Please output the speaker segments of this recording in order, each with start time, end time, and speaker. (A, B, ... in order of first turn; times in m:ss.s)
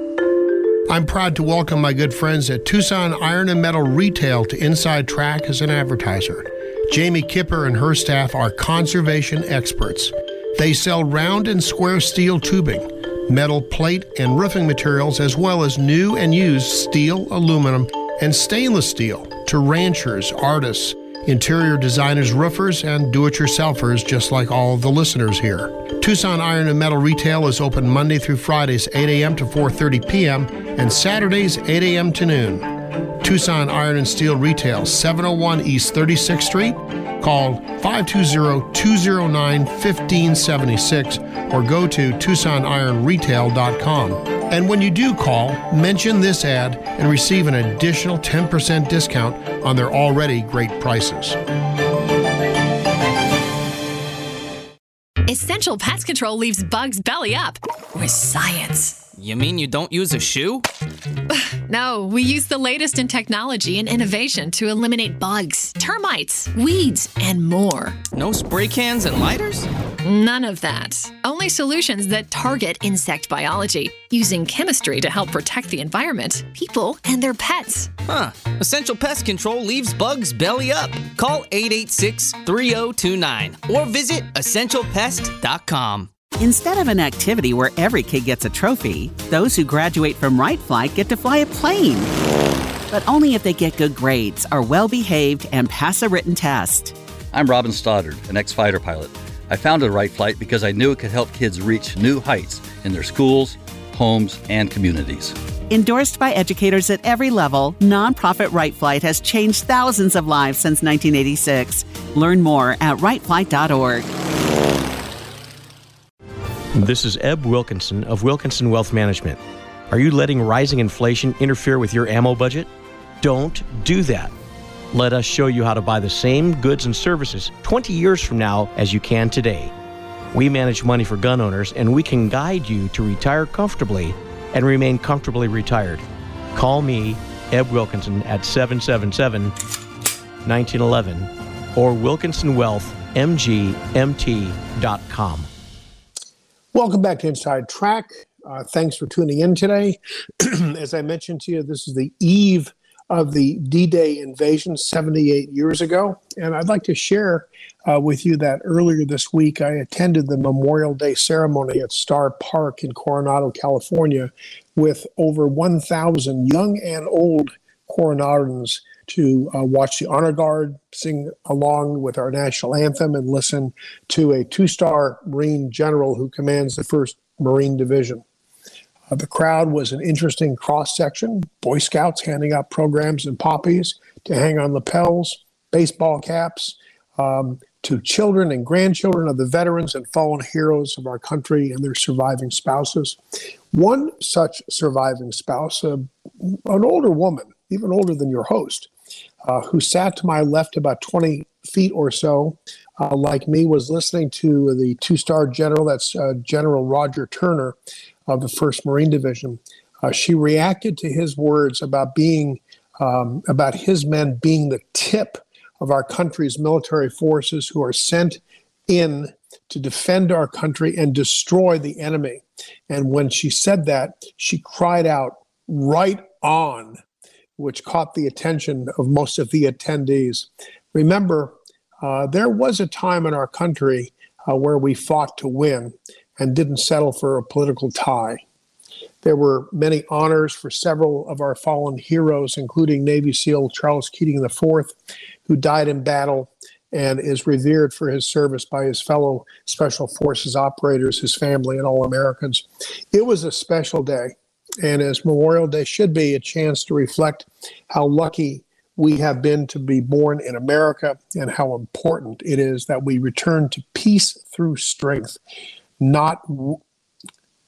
0:00.9-0:51.4 A
0:55.3-0:59.0 B
0:59.2-1:00.6 C
1:01.4-1:08.0 B
1:08.1-1:09.7 C
1:10.0-1:17.9 B
1:18.1-1:26.1 C
1:26.4-1:32.1 D
1:32.9-1:37.0 D
1:37.3-1:45.4 E
1:45.7-1:54.1 D
1:56.7-2:02.7 F
2:03.2-2:04.3 F
2:04.9-2:09.7 F
2:10.3-2:19.5 F
2:20.4-2:25.5 F
2:26.7-2:58.2 A
2:59.1-3:13.2 A
3:13.7-3:18.9 A
3:19.4-3:27.8 A
3:28.3-3:47.0 A
3:47.6-3:58.4 A
3:59.2-4:25.4 A
4:26.0-4:26.8 A